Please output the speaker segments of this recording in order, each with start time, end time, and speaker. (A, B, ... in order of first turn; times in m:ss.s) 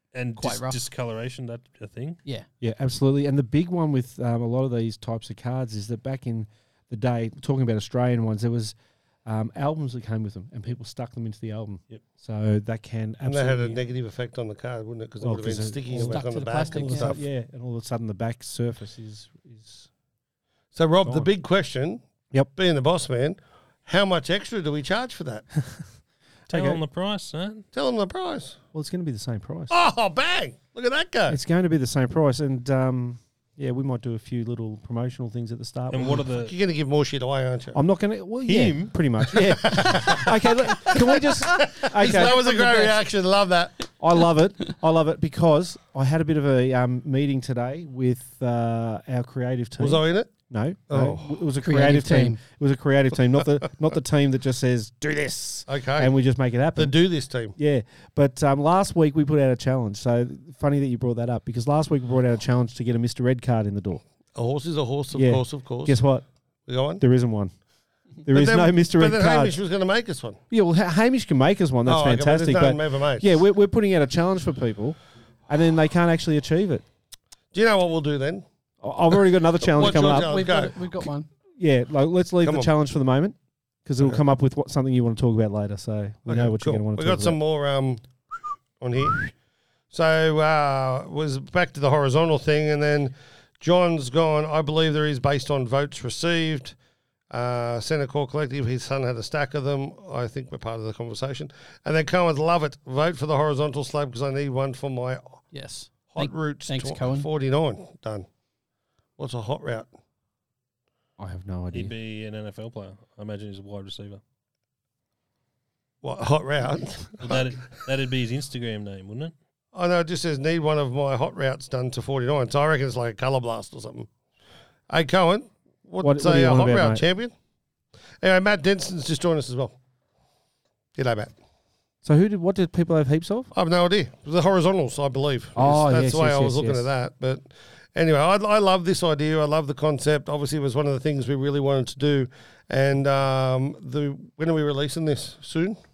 0:00.1-0:02.2 A
0:00.4-0:00.8 B
0:02.6-0:13.8 C
0:13.2-0:17.2 D
0:15.2-0:19.9 C
0:16.0-0:17.2 B
0:20.8-0:22.0 D
0:22.6-0:25.5 D
0:26.5-0:26.8 C
0:26.5-0:27.6 A
0:27.7-0:28.6 D
0:28.7-0:29.7 C
0:29.7-0:31.4 D
0:31.3-0:36.3 C
0:35.9-0:36.5 A
0:36.4-0:37.8 D
0:37.7-0:42.4 C
0:38.4-0:39.0 A
0:39.3-0:43.8 D
0:42.0-0:43.0 B
0:44.0-0:57.0 C
0:49.8-0:50.3 D
0:50.9-0:51.3 D
0:51.6-0:52.4 B
0:55.7-0:56.1 D
0:56.8-0:57.6 D
0:57.5-1:04.0 C
1:04.4-1:06.0 D
1:05.1-1:06.3 C
1:06.7-1:07.0 D
1:07.0-1:07.5 C
1:08.2-1:09.6 C
1:08.3-1:10.4 D
1:10.5-1:15.0 C
1:11.9-1:13.4 D
1:15.5-1:16.8 C
1:17.5-1:18.4 D
1:18.8-1:20.3 C
1:19.6-1:20.8 D
1:19.8-1:21.3 B
1:21.6-1:27.4 C
1:22.4-1:22.7 D
1:26.3-1:28.0 D
1:28.8-1:29.3 D
1:29.9-1:36.8 D
1:37.3-1:45.4 D
1:45.5-1:47.3 B
1:46.1-1:48.3 D
1:49.2-1:49.9 D
1:51.2-1:51.9 C
1:51.7-1:54.2 A
1:56.0-1:57.4 D
1:57.2-1:59.3 A
1:59.7-2:04.1 D
2:04.9-2:07.3 D
2:06.0-2:07.0 C
2:08.2-2:09.8 D
2:11.0-2:11.3 D
2:12.0-2:13.5 C
2:13.5-2:25.8 D
2:15.6-2:16.9 C